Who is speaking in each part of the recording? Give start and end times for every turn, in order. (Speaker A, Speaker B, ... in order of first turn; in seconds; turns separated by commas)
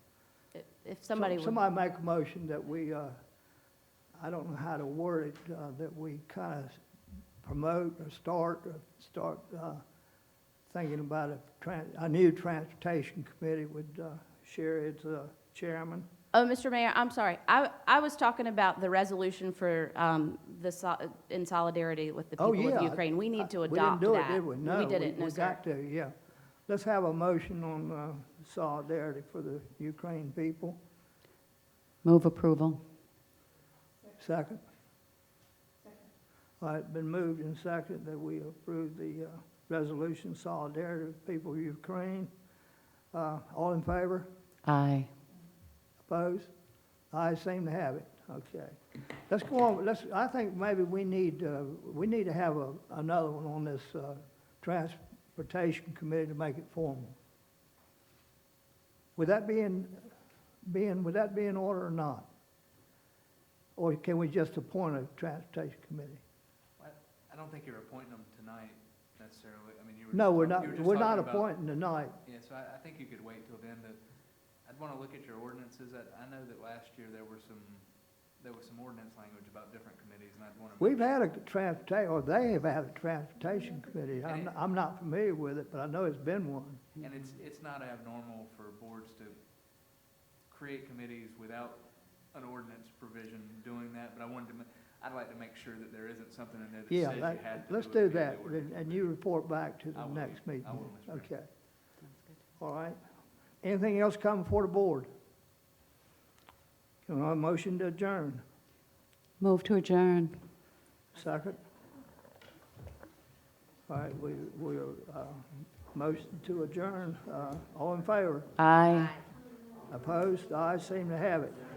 Speaker A: 0.6-1.6, Speaker B: 1.1-3.2, Speaker B: 4.2-6.8, Speaker B: 7.4-9.8, Speaker B: 10.7-16.1, Speaker A: 16.3-25.6, Speaker B: 22.4-26.1, Speaker B: 26.7-30.8, Speaker C: 32.0-32.8, Speaker B: 34.2-34.6, Speaker B: 36.6-42.3, Speaker B: 43.1-44.3, Speaker C: 44.7-45.1, Speaker B: 46.0-46.5, Speaker B: 47.1-57.2, Speaker B: 59.2-60.1, Speaker B: 60.6-62.3, Speaker B: 63.8-66.2, Speaker D: 66.8-71.5, Speaker B: 70.1-72.2, Speaker D: 72.2-74.0, Speaker D: 74.7-77.9, Speaker D: 78.4-81.1, Speaker B: 80.8-86.8, Speaker D: 84.2-84.5, Speaker D: 87.0-89.4, Speaker D: 90.5-99.1, Speaker B: 96.9-101.5, Speaker D: 100.0-101.3, Speaker B: 102.6-103.0, Speaker B: 103.6-105.1, Speaker B: 107.0-108.4, Speaker C: 109.4-110.4, Speaker B: 111.1-111.6, Speaker B: 113.9-118.5, Speaker C: 118.6-119.1, Speaker B: 119.9-121.6